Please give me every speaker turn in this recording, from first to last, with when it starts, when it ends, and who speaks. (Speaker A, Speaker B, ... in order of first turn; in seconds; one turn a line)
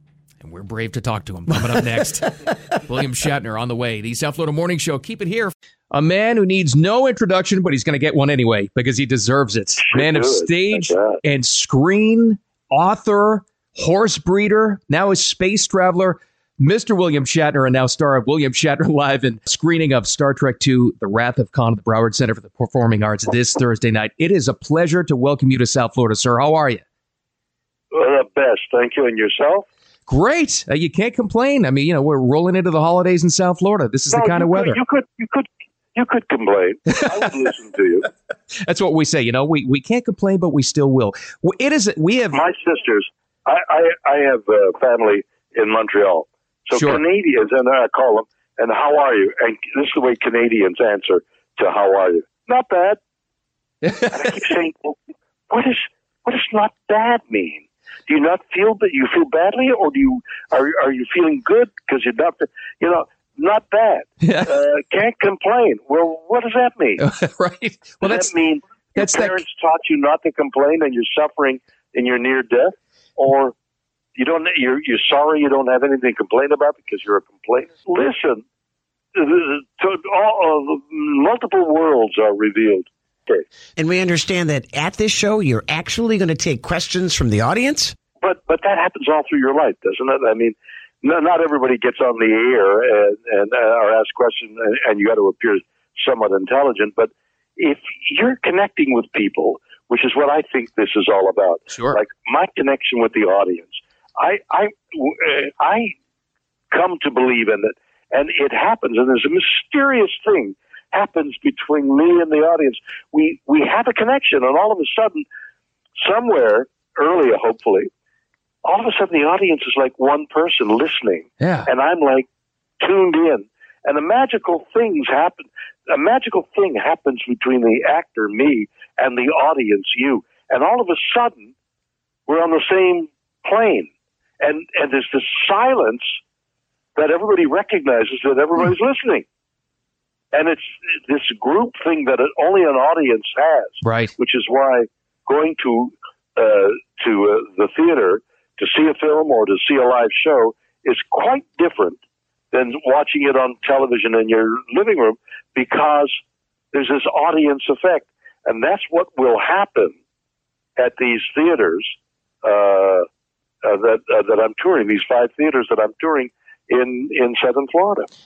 Speaker A: 0.4-26.8
Speaker B: 9.8-11.2
Speaker B: 27.9-29.6
Speaker A: 30.1-34.8
Speaker B: 34.1-38.1
Speaker A: 36.9-37.5
Speaker A: 38.6-42.4
Speaker B: 42.3-53.0
Speaker A: 46.7-47.0
Speaker A: 53.8-54.4
Speaker B: 54.1-55.0
Speaker B: 55.5-67.0
Speaker A: 64.2-64.6
Speaker A: 67.0-68.3
Speaker B: 68.0-73.5
Speaker A: 68.9-69.4
Speaker B: 74.2-78.4
Speaker B: 79.1-83.4
Speaker C: 83.8-88.0
Speaker B: 88.2-105.9
Speaker A: 101.7-102.0
Speaker B: 106.7-115.2
Speaker B: 116.0-117.9
Speaker B: 118.6-122.2
Speaker A: 121.4-121.7
Speaker B: 122.8-131.5
Speaker B: 132.3-136.2
Speaker B: 136.9-139.2
Speaker B: 140.3-152.0
Speaker A: 143.8-144.1
Speaker B: 152.5-156.2
Speaker B: 156.7-159.9
Speaker B: 160.8-163.1
Speaker B: 163.6-168.1